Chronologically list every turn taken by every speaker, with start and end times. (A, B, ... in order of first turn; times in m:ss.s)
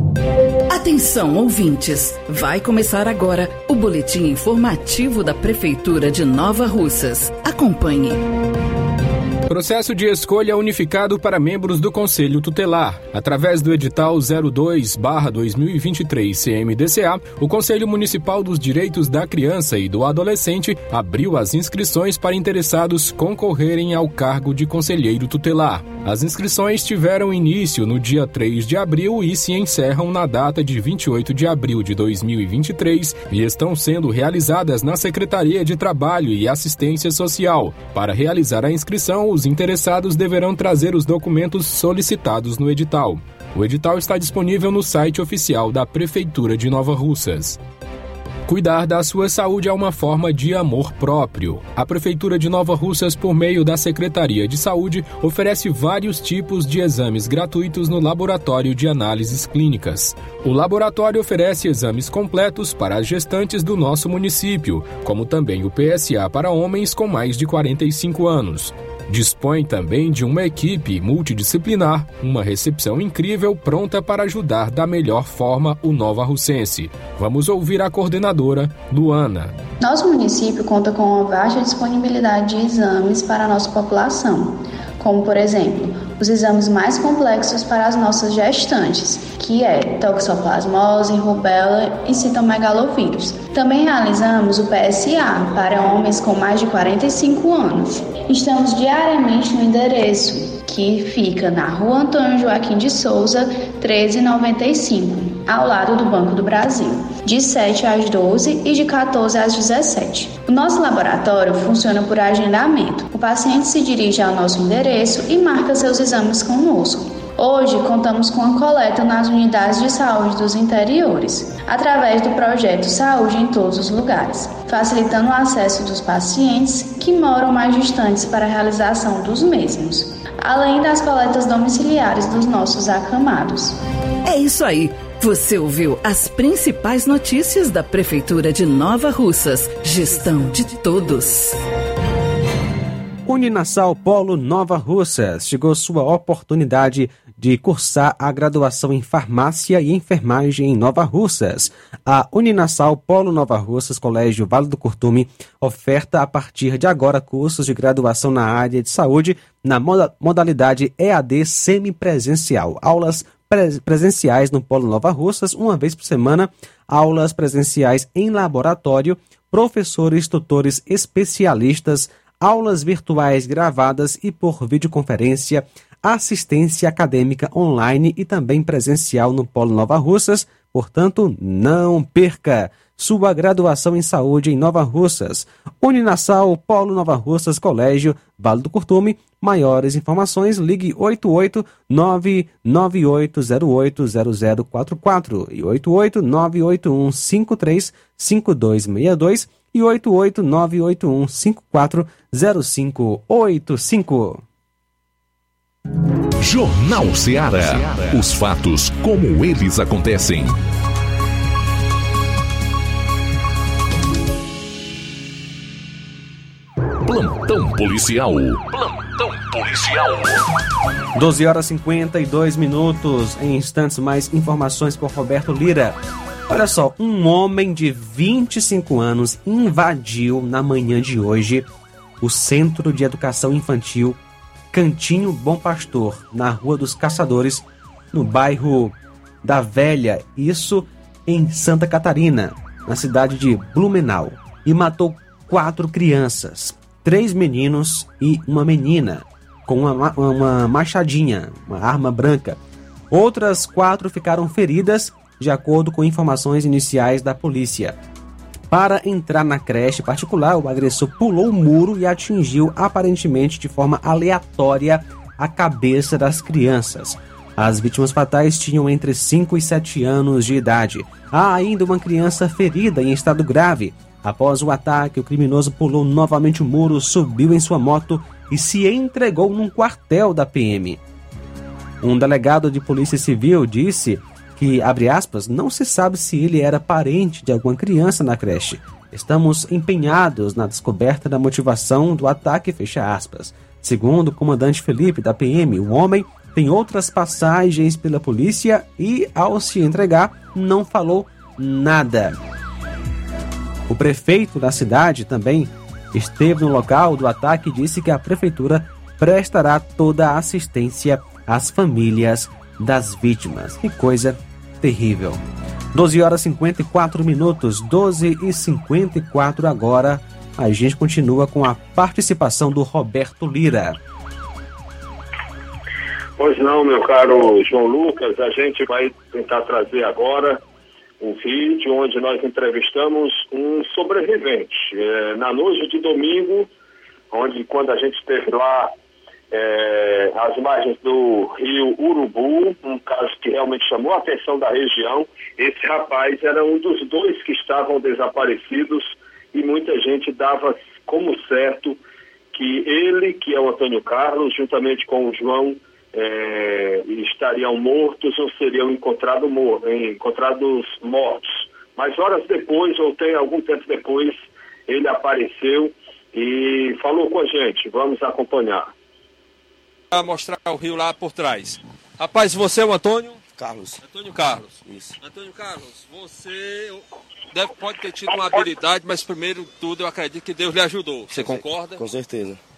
0:00.7-0:08.3 A
0:09.5-0:47.6 B
0:48.5-1:19.5 B
1:19.8-2:13.8 C
2:14.2-2:21.6 A
2:23.3-3:24.4 D
3:26.4-3:30.6 E
3:37.0-3:40.4 E
3:41.1-3:51.6 D
3:52.2-3:54.2 D
3:54.7-4:12.6 D
4:13.1-4:18.0 D
4:18.7-4:41.0 D
4:42.0-5:02.4 D
5:03.9-5:15.4 D
5:15.9-5:24.0 D
5:26.4-5:30.6 F
5:31.2-5:36.7 F
5:37.3-5:38.9 F
5:39.5-5:52.0 F
5:52.5-6:08.9 F
6:10.1-6:13.4 G
6:13.6-6:14.0 H
6:14.0-6:14.7 G
6:14.8-6:15.2 H
6:15.2-6:22.0 G
6:21.3-6:22.6 H